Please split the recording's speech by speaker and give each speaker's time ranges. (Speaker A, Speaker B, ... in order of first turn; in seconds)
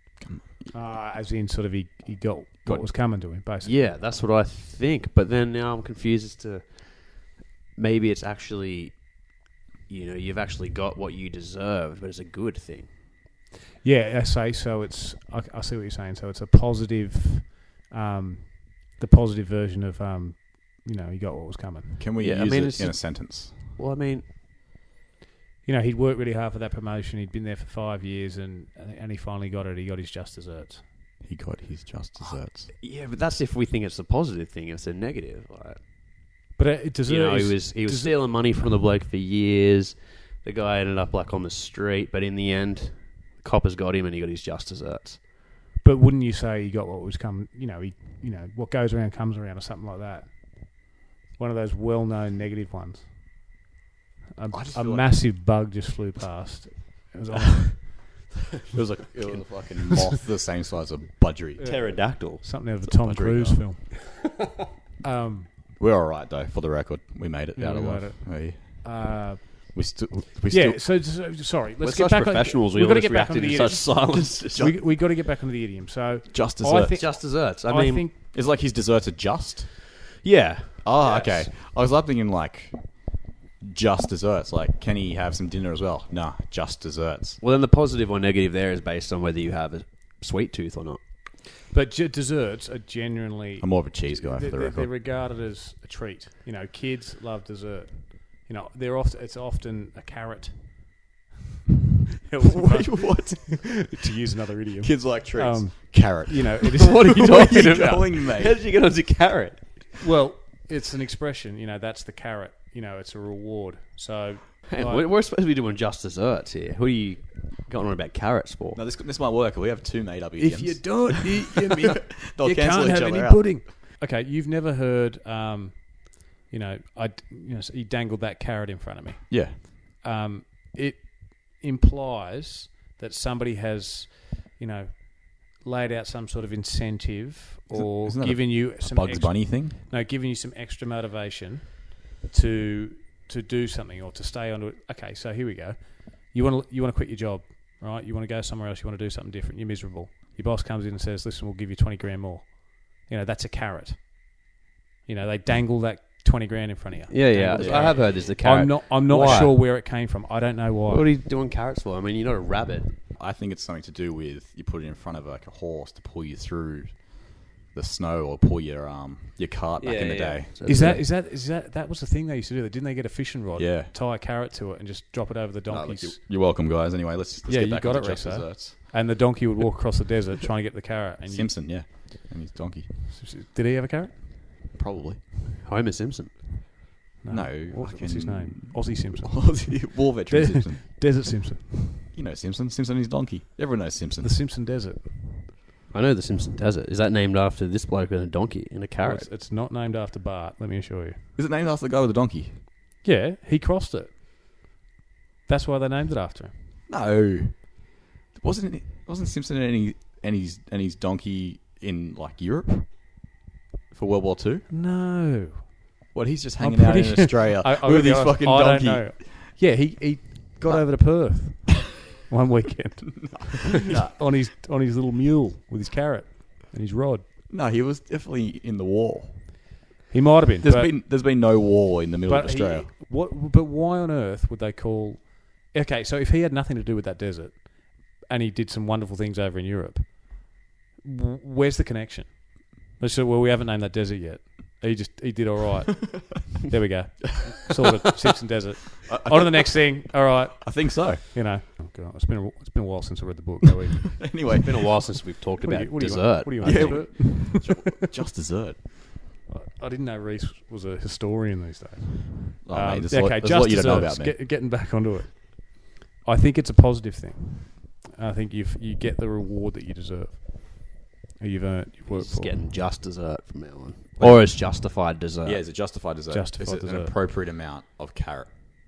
Speaker A: 0.2-0.7, 22.0-23.6, 31.2-32.7, 54.5-55.3, 58.7-61.8, 62.8-63.7, 65.8-69.2, 69.7-70.8, 76.3-77.0, 78.3-79.8, 80.8-87.4, 93.6-94.9, 102.4-103.8, 104.8-108.6, 118.7-123.7, 129.3-129.6, 137.7-139.8, 157.5-158.2, 163.2-170.8, 173.6-173.9, 175.7-178.8, 181.3-182.9, 184.7-185.2, 187.3-191.0, 192.1-194.4, 201.4-202.6, 206.9-213.3, 213.9-214.7, 216.1-219.4, 223.8-224.2, 227.5-229.5, 230.6-232.9, 249.1-251.2, 254.2-255.0, 256.6-258.9, 262.6-264.4, 274.2-274.7, 275.4-278.5
Speaker B: 0.7-4.0, 13.8-22.0, 25.6-30.8, 36.6-38.3, 45.8-53.4, 54.4-58.1, 61.6-64.2, 65.0-65.5, 67.6-69.8, 70.5-78.2, 91.7-101.0, 102.2-107.3, 110.0-115.1, 120.4-154.4, 155.1-161.1, 170.7-176.2, 177.5-181.9, 183.1-184.2, 187.2-192.1, 194.2-195.5, 199.0-201.2, 203.0-204.1, 205.5-206.5, 214.7-215.8, 216.6-227.3, 230.1-231.0, 232.3-254.5, 255.6-258.0, 259.5-272.6, 276.3-277.2
Speaker C: 3.6-9.2, 9.9-12.9, 22.2-24.2, 32.2-36.4, 37.1-45.2, 61.6-62.5, 71.8-74.7, 77.0-78.1, 80.2-81.5, 87.4-91.0, 106.8-109.9, 114.7-118.8, 157.1-159.6, 160.9-163.0, 169.8-171.1, 185.6-186.7, 195.9-199.3, 254.6-257.1, 272.1-275.6